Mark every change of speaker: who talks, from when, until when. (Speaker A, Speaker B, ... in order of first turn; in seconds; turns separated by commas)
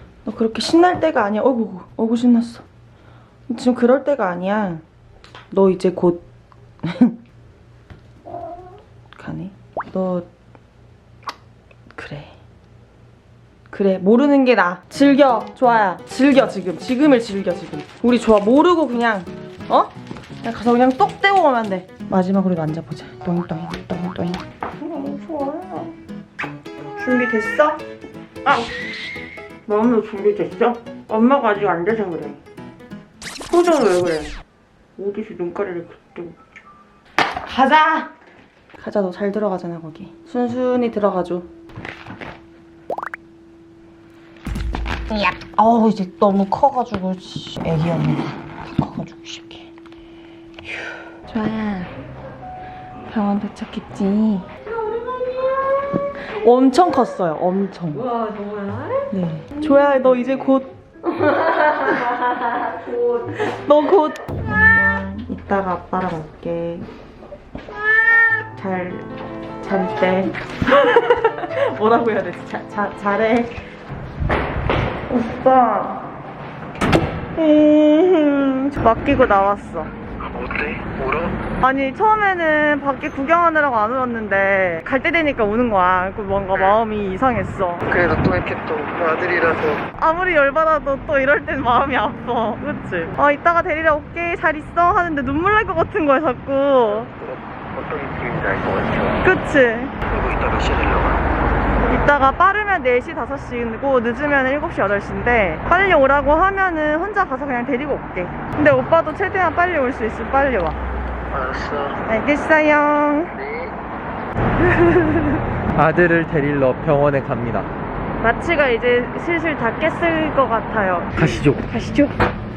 Speaker A: 0.2-2.6, Speaker A: 3.5-4.8, Speaker A: 5.5-6.2, Speaker A: 6.8-7.2, Speaker A: 9.2-10.3, Speaker A: 11.9-12.3, Speaker A: 13.7-25.9, Speaker A: 27.0-27.8, Speaker A: 28.4-28.7, Speaker A: 29.6-32.4, Speaker A: 33.4-34.3, Speaker A: 35.0-36.4, Speaker A: 37.4-38.1, Speaker A: 38.8-41.5, Speaker A: 45.1-49.7, Speaker A: 51.2-51.9, Speaker A: 53.0-54.5, Speaker B: 54.8-55.9, Speaker A: 56.2-58.0, Speaker B: 58.0-59.1, Speaker A: 59.1-60.7, Speaker B: 61.1-63.3, Speaker A: 63.3-66.9, Speaker A: 68.4-69.1, Speaker A: 69.6-73.6, Speaker A: 75.1-76.1, Speaker A: 77.3-79.9, Speaker C: 80.2-81.4, Speaker A: 81.6-87.9, Speaker C: 87.9-89.8, Speaker A: 89.9-97.1, Speaker C: 97.0-99.3, Speaker A: 99.2-100.0, Speaker C: 100.0-101.2, Speaker A: 101.8-110.8, Speaker C: 111.3-112.0, Speaker A: 112.0-113.3, Speaker C: 113.3-113.7, Speaker D: 115.8-117.7, Speaker A: 118.2-122.2, Speaker D: 121.2-121.7